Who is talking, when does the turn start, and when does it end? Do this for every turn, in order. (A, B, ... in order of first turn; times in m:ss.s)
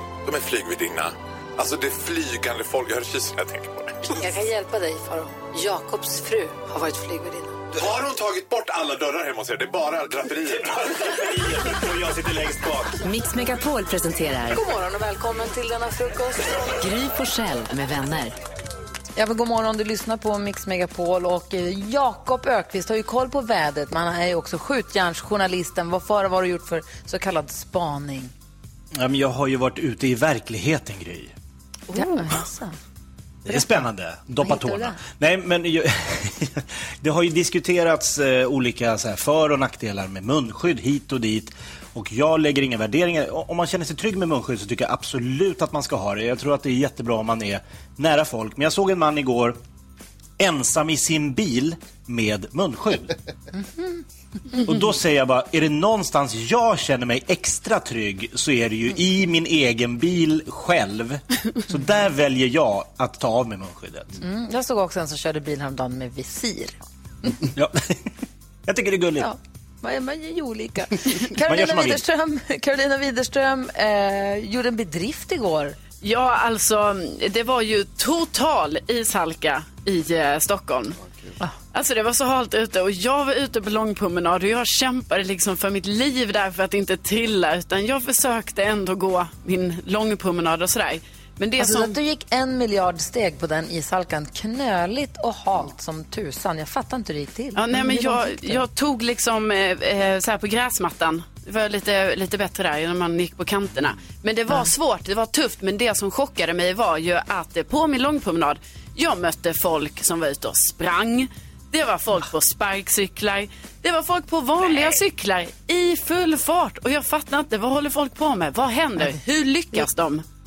0:00.2-0:04.1 A
0:04.1-0:07.5 B
0:07.7-0:12.7 A
0:13.0-0:14.6 C
0:14.5-0:16.7 B
0:16.8-0:18.3 C
0:19.2-0:28.3 B
0:28.9-0:31.3 D
0:31.9-0:32.8 B
0:33.4-0:49.6 D
0:33.5-0:33.9 B
0:34.4-0:35.0 B
0:50.4-0:53.1 D
0:53.8-0:54.0 B
0:54.6-1:04.2 D
1:04.2-1:06.8 B
1:07.5-1:08.0 D
1:08.6-1:09.3 D
1:09.2-1:15.8 B
1:11.4-1:12.0 D
1:16.0-1:21.0 E
1:21.7-1:32.0 E
1:31.6-1:38.6 B
1:37.5-2:00.2 E